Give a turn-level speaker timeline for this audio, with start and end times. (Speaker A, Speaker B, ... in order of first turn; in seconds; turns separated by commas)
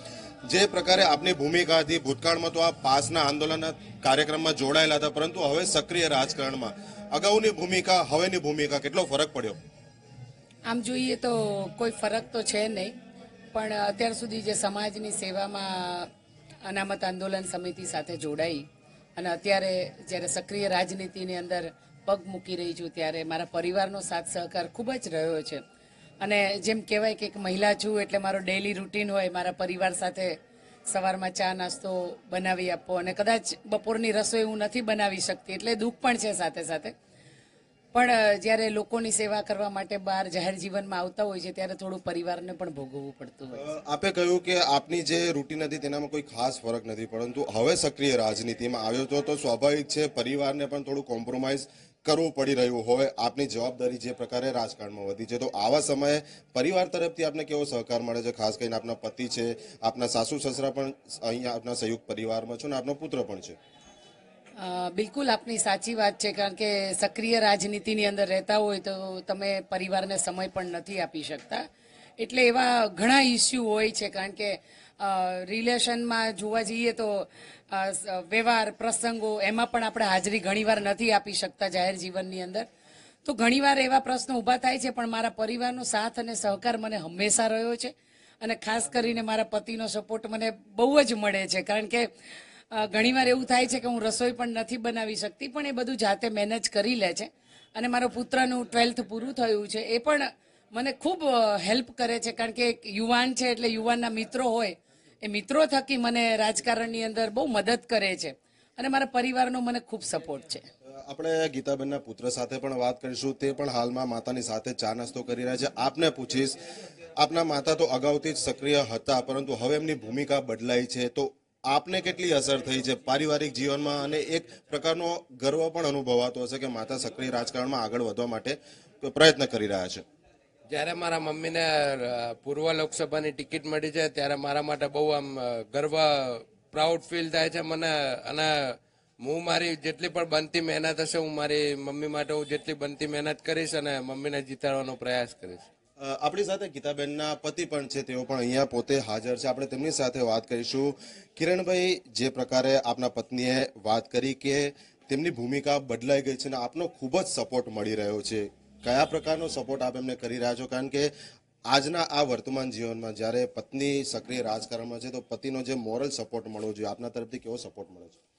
Speaker A: 0.5-9.6, Speaker B: 10.7-12.9, Speaker B: 13.5-16.1, Speaker B: 16.6-25.6, Speaker B: 26.2-30.3, Speaker B: 30.9-36.9, Speaker B: 37.9-43.6, Speaker A: 43.6-63.6, Speaker B: 64.6-71.6, Speaker B: 72.2-82.7, Speaker B: 83.2-92.1, Speaker B: 92.7-110.7, Speaker A: 110.8-116.6, Speaker A: 117.2-130.1, Speaker C: 130.7-145.7, Speaker A: 146.0-161.1, Speaker A: 161.7-168.2